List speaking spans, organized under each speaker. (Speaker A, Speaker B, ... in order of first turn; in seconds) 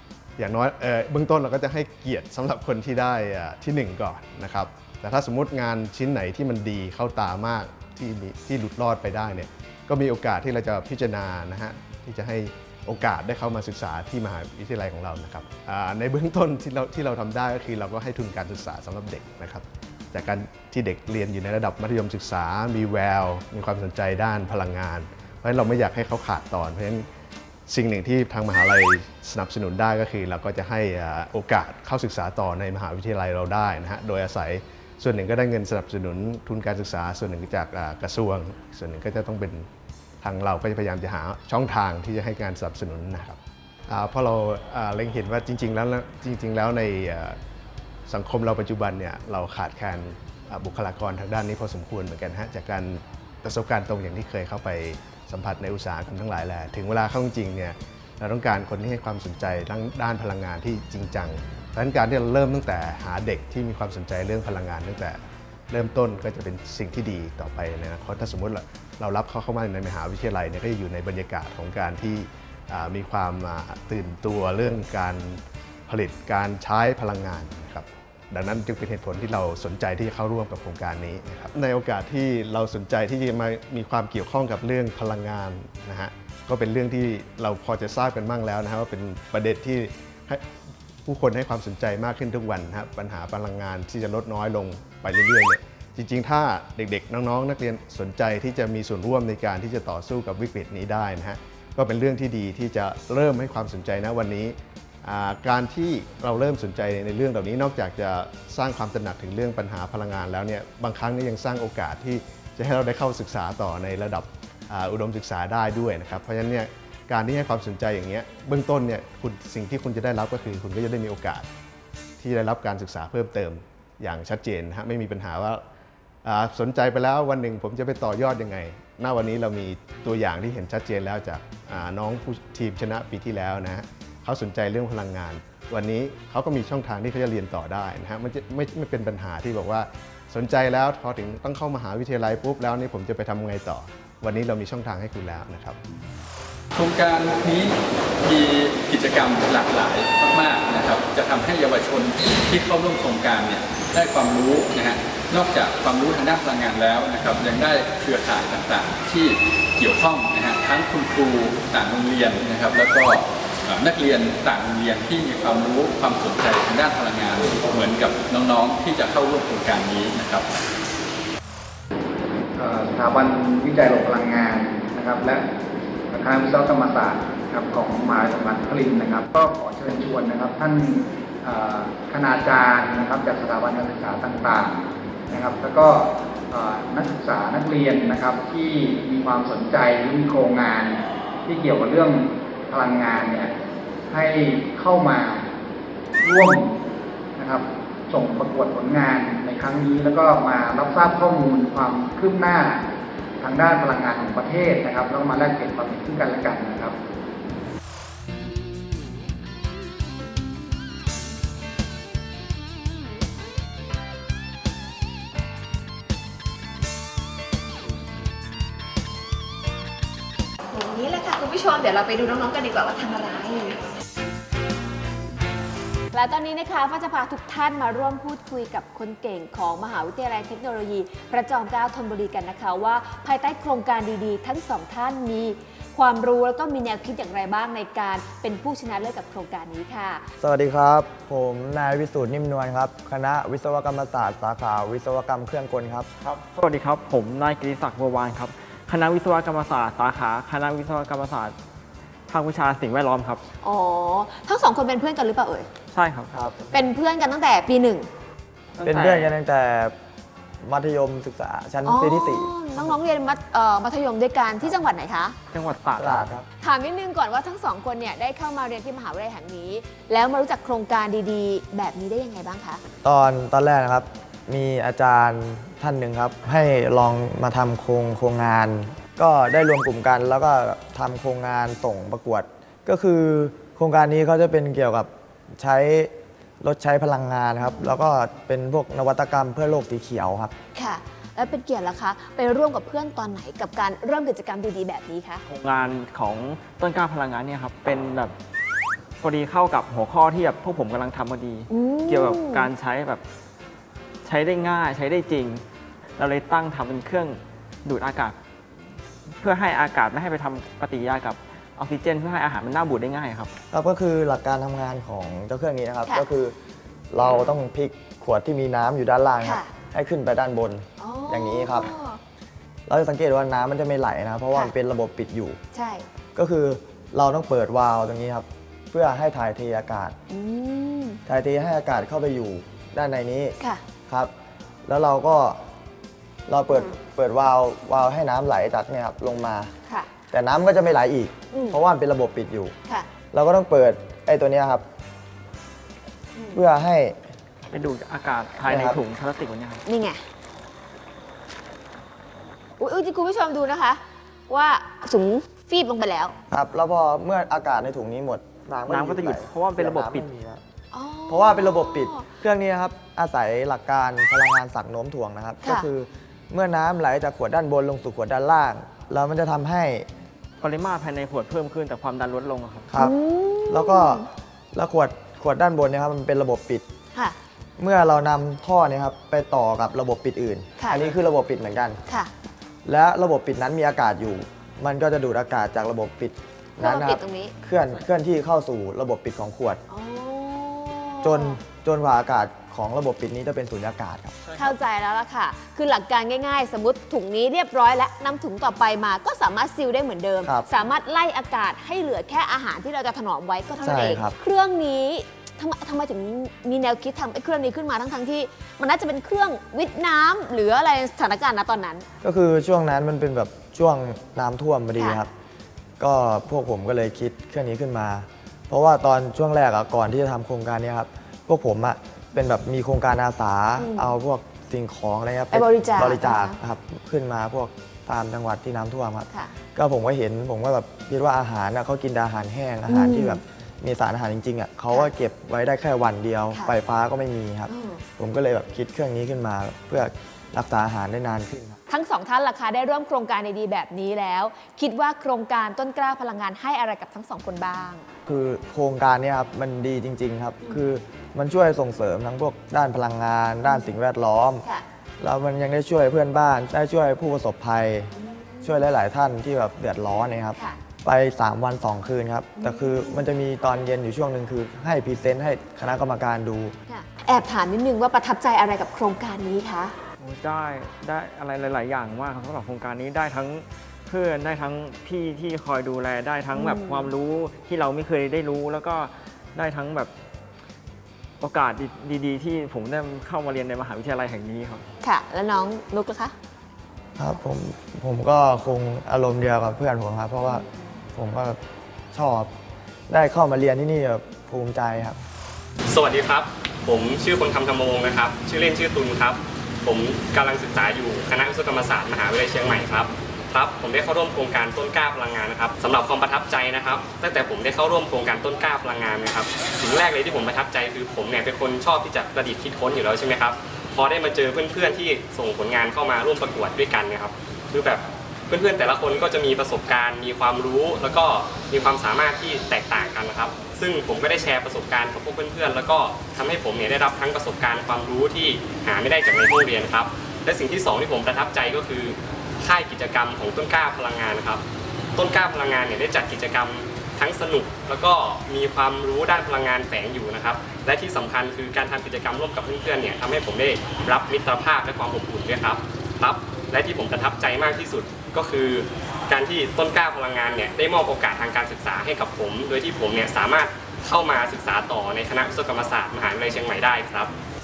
Speaker A: 0.4-27.1, 27.7-39.7, 40.2-47.4, 48.1-65.2, 65.7-90.5, 91.0-121.5, 122.2-125.6, 126.2-145.8
Speaker B: 146.8-170.5
Speaker C: 172.7-175.4, 176.2-180.5, 181.5-184.8, 185.4-186.0, 186.6-190.9, 192.9-193.4, 194.2-195.3, 196.2-196.5, 198.2-202.7, 203.6-204.2, 205.4-206.9
Speaker D: 220.7-223.8, 226.1-240.2, 253.6-255.7, 256.7-258.1, 261.9-265.4, 266.6-272.8, 290.8-295.4, 301.7-302.7, 319.4-319.7, 321.0-322.2, 325.7-326.1, 330.3-331.2, 336.7-337.0, 341.5-341.8, 346.4-346.6, 349.9-350.2, 352.8-356.4, 360.9-362.3, 373.0-374.2, 380.8-381.2, 386.8-387.6, 389.9-391.6, 394.6-412.1, 415.0-415.2, 423.8-424.1, 425.5-426.6, 432.9-433.4, 437.7-438.0, 441.9-448.1, 458.1-458.9, 462.6-463.2, 466.9-469.9, 476.5-477.1, 485.0-486.3
Speaker E: 240.4-246.1, 256.3-256.6, 258.8-259.9, 260.6-262.9, 266.0-266.5, 273.0-290.5, 313.7-316.6, 317.1-321.9, 322.9-325.6, 326.4-330.2, 331.3-333.6, 334.9-335.6, 336.5-339.7, 340.3-342.7, 343.3-344.9, 346.5-347.2, 348.7-349.0, 356.5-360.6, 361.3-370.1, 373.7-376.9, 377.8-382.0, 382.9-389.8, 391.2-394.4, 403.8-404.4, 412.2-415.3, 416.0-441.8, 448.3-454.6, 455.2-458.1, 458.6-466.7, 487.2-491.6, 492.1-492.5, 493.1-495.2
Speaker F: 246.2-251.6, 252.3-253.4, 255.9-256.4, 258.8-259.3, 265.5-266.3, 295.5-298.4, 299.2-303.2, 304.2-305.6, 306.2-308.4, 309.3-313.5, 347.7-349.8, 358.9-360.3, 370.6-372.9, 470.2-480.1, 481.4-484.9
Speaker G: 495.9-534.6, 535.1-557.3